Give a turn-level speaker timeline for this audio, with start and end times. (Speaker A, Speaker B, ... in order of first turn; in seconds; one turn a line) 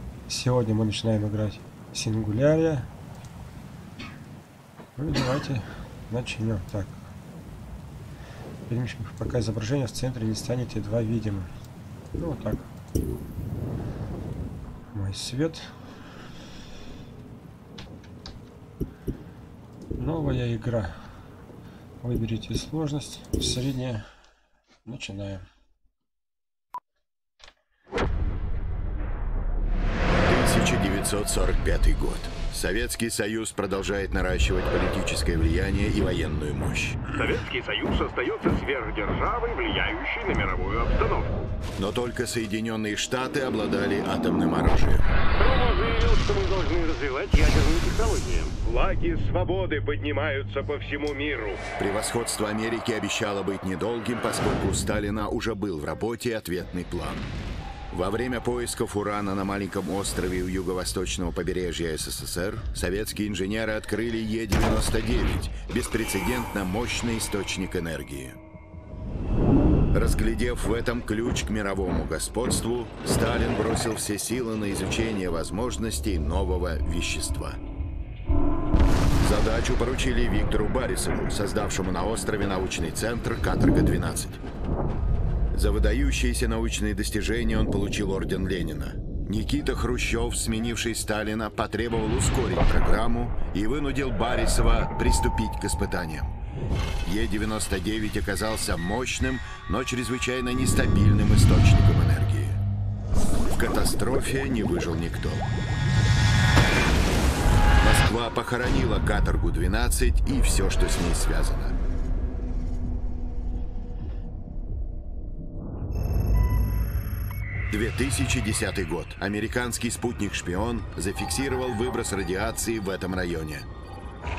Speaker A: 0.3-2.9
Speaker A: 5.0-7.1
Speaker A: 8.7-11.5
Speaker A: 12.2-12.7
Speaker A: 14.9-15.7
Speaker A: 20.0-21.0
Speaker A: 22.0-24.1
Speaker A: 24.9-25.4
Speaker B: 30.2-37.0
Speaker C: 37.1-41.3
Speaker B: 41.8-45.1
Speaker C: 45.4-51.6
Speaker B: 51.8-57.3
Speaker B: 57.9-68.4
Speaker B: 69.9-77.6
Speaker B: 79.2-84.4
Speaker B: 85.5-96.3
Speaker B: 97.0-102.6
Speaker B: 103.5-105.5
Speaker B: 107.8-111.8
Speaker B: 117.7-123.7